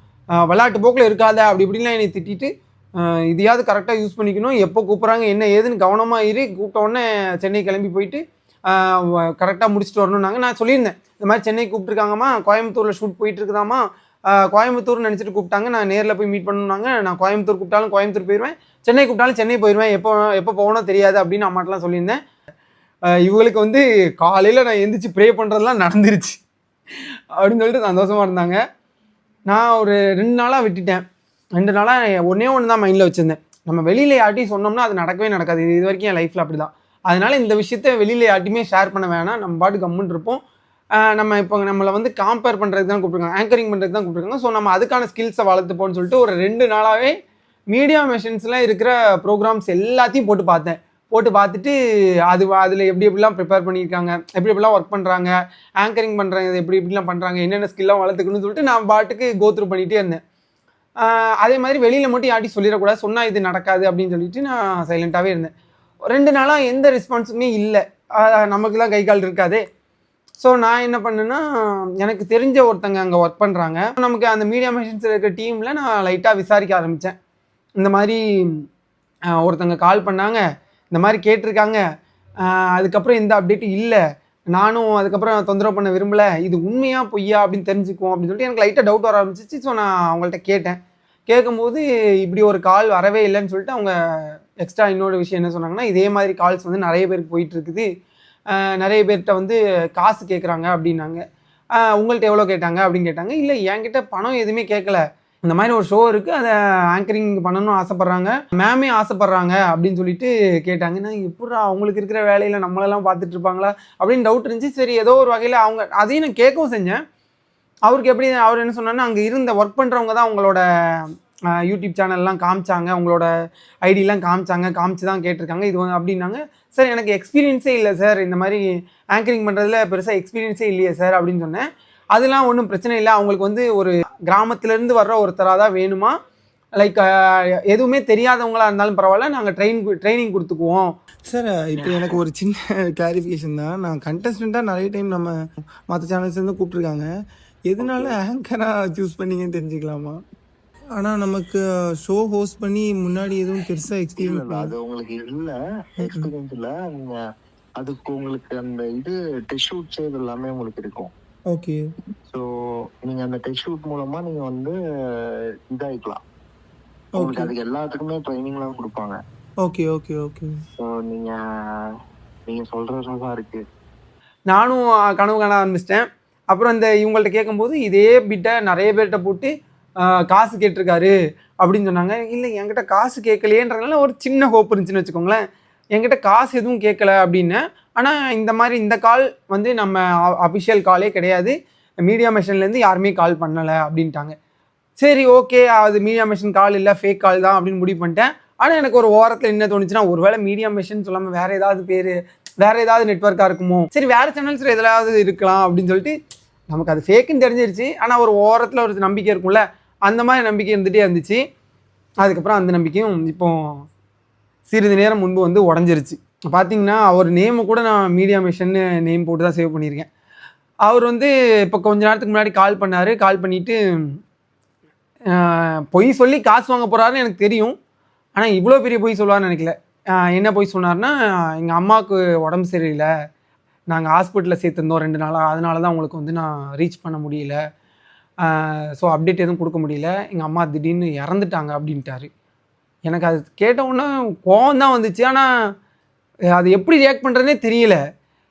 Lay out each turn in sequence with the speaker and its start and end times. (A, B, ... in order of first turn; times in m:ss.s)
0:00.4-0:22.2 A
0:23.2-0:26.4 A
0:27.4-0:28.6 A
0:29.5-0:31.0 A
0:31.6-0:40.4 A
0:41.0-0:47.1 A
0:47.7-0:51.7 A
0:52.3-1:00.2 A
1:01.0-1:05.5 A
1:06.1-1:09.6 A
1:10.4-1:11.4 A
1:12.0-1:17.1 A
1:17.8-1:18.6 A
1:19.4-1:21.8 A
1:22.4-1:24.0 A
1:24.5-1:33.9 A
1:34.6-1:37.9 A
1:38.5-1:41.2 A
1:41.7-1:57.0 A
1:57.8-2:00.6 A
2:01.6-2:03.3 A
2:03.8-2:16.1 A
2:16.8-2:20.9 A
2:21.2-2:25.3 B
2:25.9-2:27.0 B
2:27.7-2:30.2 B
2:31.0-2:34.7 B
2:34.2-2:37.2 C
2:36.0-2:36.3 B
2:37.8-2:41.1 C
2:41.5-2:41.8 B
2:43.0-2:46.2 C
2:47.1-2:47.5 B
2:47.1-2:49.2 C
2:49.6-2:50.5 B
2:50.8-2:51.9 C
2:52.5-2:53.6 C
2:54.5-3:05.4 A
3:05.9-3:14.3 A
3:15.0-3:26.1 A
3:26.7-3:31.4 A
3:32.2-3:33.6 A
3:34.7-3:40.1 A
3:40.8-3:43.8 A
3:45.3-3:47.7 A
3:48.3-3:53.1 A
3:53.9-3:57.6 A
3:58.4-4:02.3 A
4:03.1-4:05.5 A
4:06.6-4:08.0 A